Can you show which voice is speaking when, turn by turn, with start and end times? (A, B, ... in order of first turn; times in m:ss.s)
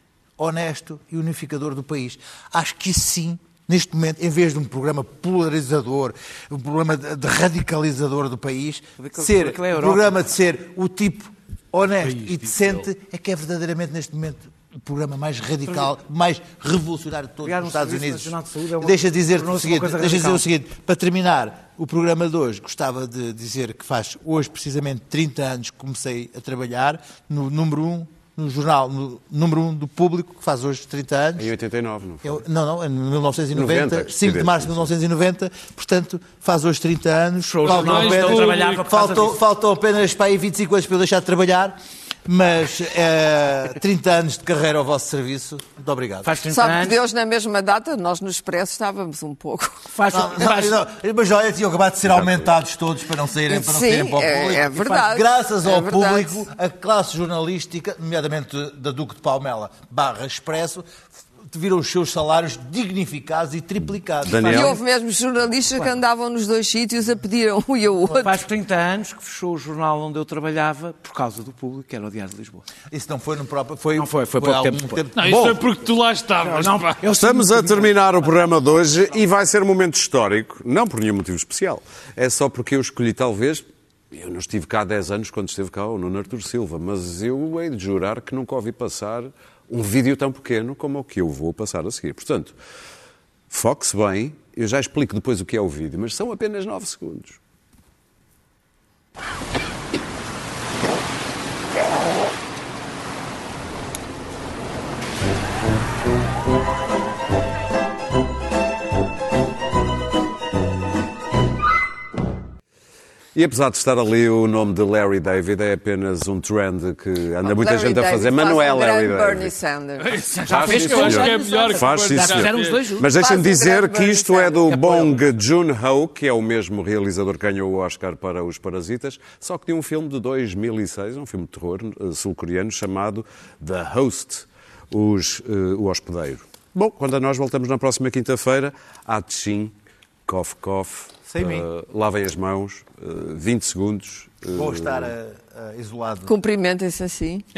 0:00.4-0:31.5 A
0:09.0-0:10.2 B
0:12.2-0:12.7 C
0:17.4-0:20.4 B
0:31.4-0:32.4 D
0:32.2-0:46.4 A
0:33.5-0:34.8 D
0:37.4-0:39.4 B
0:37.6-0:38.9 C
0:46.2-0:47.0 B
0:46.5-0:49.9 E
0:49.9-0:50.8 B
0:50.1-1:04.7 A
0:53.5-0:56.4 E
1:04.2-1:04.8 D
1:04.4-1:04.7 B
1:04.5-1:08.4 E
1:08.2-1:12.6 B
1:12.9-1:15.6 A
1:14.0-1:15.0 B
1:15.2-1:17.0 C
1:16.4-1:18.9 B
1:17.1-1:32.6 D
1:33.5-1:37.4 D
1:53.3-1:59.5 D
1:57.4-2:00.2 E
2:00.0-2:02.8 C
2:00.4-2:03.1 B
2:00.4-2:25.1 D
2:03.1-2:04.6 E
2:04.6-2:05.2 B
2:24.5-2:26.3 A
2:26.2-2:27.4 E